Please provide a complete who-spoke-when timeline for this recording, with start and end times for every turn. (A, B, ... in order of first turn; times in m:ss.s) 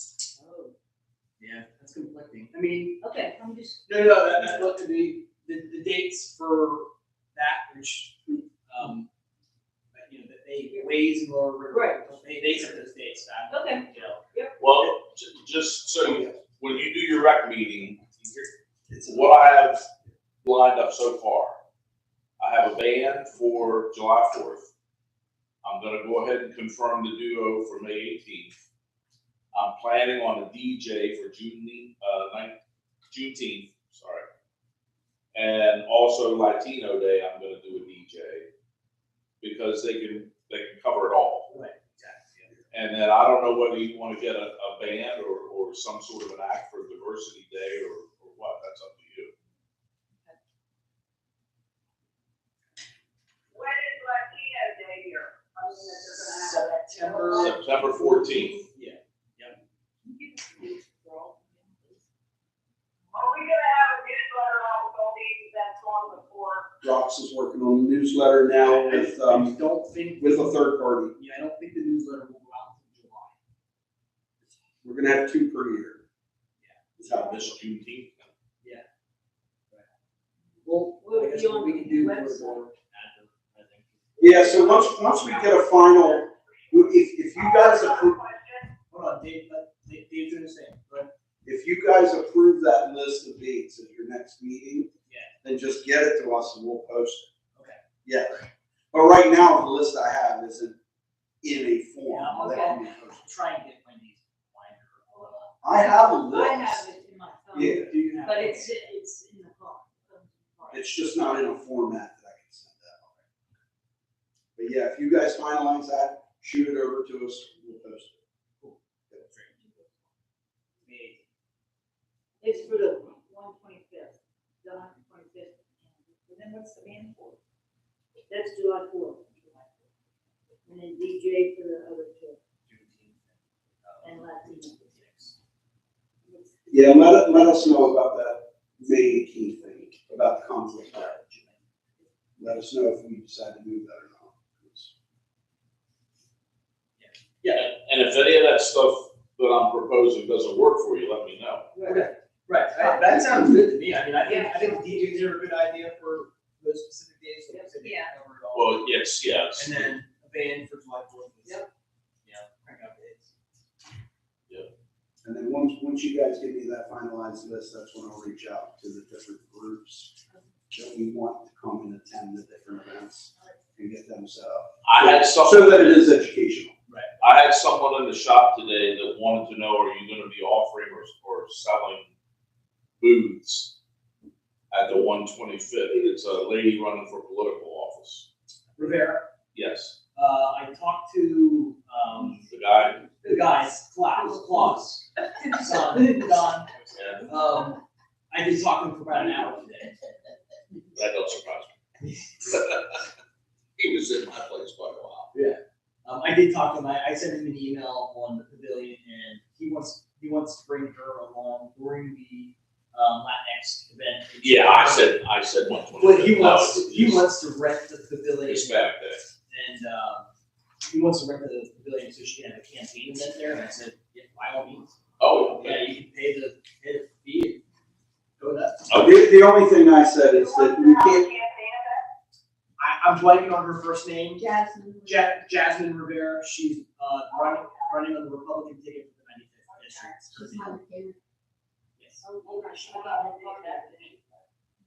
0:00.4-0:00.7 A
0:01.4-0:03.0 B
0:03.0-0:04.5 A
0:03.9-0:09.1 B
0:09.9-0:14.9 B
0:11.7-0:12.0 A
0:13.5-0:14.5 A
0:14.6-0:18.1 C
0:18.9-0:19.4 D
0:19.1-0:19.8 C
0:20.4-0:21.6 C
0:22.4-0:24.6 C
0:25.6-0:28.5 C
0:29.5-0:32.6 C
0:33.1-0:34.3 C
0:35.3-0:38.5 C
0:39.4-0:41.5 C
0:41.5-0:42.5 B
0:42.7-0:49.3 C
0:53.5-0:57.6 E
0:56.3-0:59.6 B
0:57.4-0:58.6 C
1:00.0-1:02.0 A
1:03.1-1:06.7 E
1:06.8-1:09.6 D
1:08.6-1:13.4 B
1:10.2-1:11.1 D
1:14.8-1:16.0 D
1:17.0-1:18.3 C
1:17.0-1:17.5 D
1:20.6-1:25.2 B
1:20.9-1:22.6 A
1:24.2-1:28.2 D
1:25.3-1:26.8 E
1:27.4-1:28.7 E
1:28.9-1:31.1 B
1:31.4-1:34.9 D
1:35.1-1:35.3 B
1:35.4-1:37.3 D
1:38.0-1:40.8 D
1:41.4-1:43.3 D
1:42.1-1:45.5 B
1:42.4-1:42.8 A
1:45.1-1:50.9 A
1:45.6-1:46.9 D
1:47.5-1:47.9 D
1:47.6-1:48.7 B
1:50.7-1:53.2 D
1:54.6-1:58.2 D
1:58.6-1:59.8 B
2:00.8-2:01.3 B
2:02.4-2:07.4 A
2:08.3-2:09.7 A
2:10.6-2:12.4 A
2:12.7-2:15.3 B
2:14.0-2:14.9 A
2:16.7-2:21.2 D
2:20.9-2:21.6 B
2:22.4-2:24.9 D
2:27.0-2:27.7 B
2:27.5-2:31.7 C
2:31.8-2:32.1 A
2:31.8-2:38.9 B
2:34.2-2:35.3 A
2:37.5-2:38.1 A
2:38.5-2:39.9 C
2:39.6-2:41.7 B
2:42.2-2:43.3 B
2:45.2-2:50.1 D
2:50.7-2:56.7 D
2:54.8-2:56.2 C
2:57.2-3:02.0 C
3:03.0-3:03.7 C
3:04.7-3:08.3 C
3:08.8-3:09.3 B
3:09.5-3:10.0 C
3:10.2-3:12.5 B
3:12.5-3:13.0 C
3:13.2-3:16.7 B
3:15.4-3:16.1 A
3:16.9-3:17.3 C
3:17.2-3:17.8 B
3:18.3-3:20.0 B
3:20.9-3:21.8 C
3:22.4-3:23.0 C
3:23.8-3:25.3 C
3:25.3-3:35.2 B
3:34.4-3:37.3 C
3:35.9-3:38.9 B
3:38.5-3:39.2 C
3:39.5-3:40.3 B
3:40.9-3:47.6 B
3:45.2-3:45.9 C
3:48.4-3:48.9 B
3:48.9-3:49.1 C
3:48.9-3:51.3 D
3:50.3-3:52.1 E
3:52.8-3:54.5 B
3:54.4-3:55.2 A
3:55.0-4:00.8 B
3:57.4-3:57.8 E
4:02.0-4:02.2 B
4:02.2-4:04.1 A
4:02.9-4:03.9 E